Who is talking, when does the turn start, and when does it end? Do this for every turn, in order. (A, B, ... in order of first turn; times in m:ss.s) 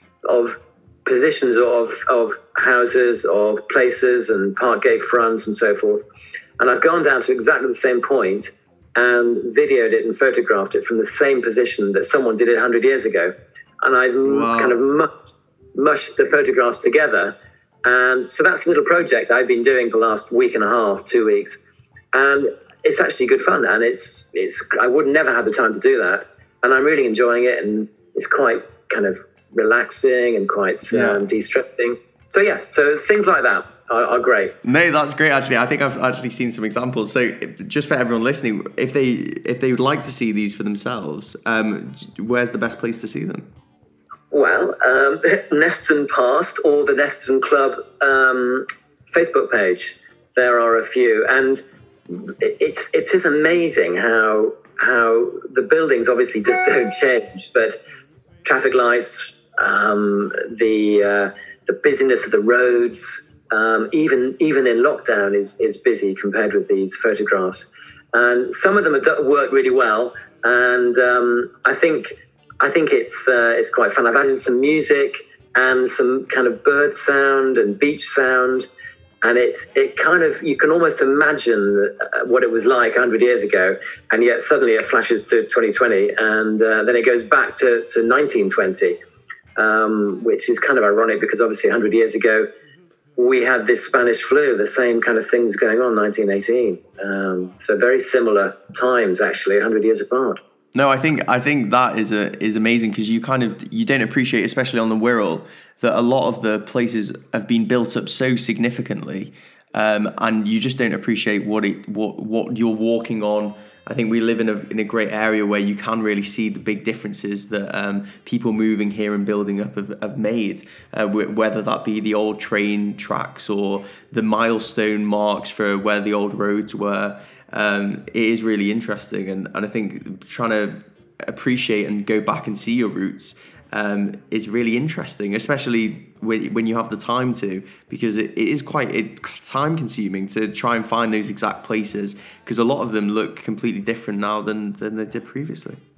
0:00.2-0:06.0 A
0:06.6-0:15.1 A
0:14.2-0:14.8 B
0:15.8-0:21.6 A
0:22.1-0:34.6 A
0:30.9-0:31.2 B
0:34.6-0:43.5 B
0:44.3-0:57.8 A
0:58.4-1:18.7 A
1:19.2-1:29.0 A
1:29.6-1:32.5 A
1:33.2-1:40.4 A
1:40.8-2:25.8 B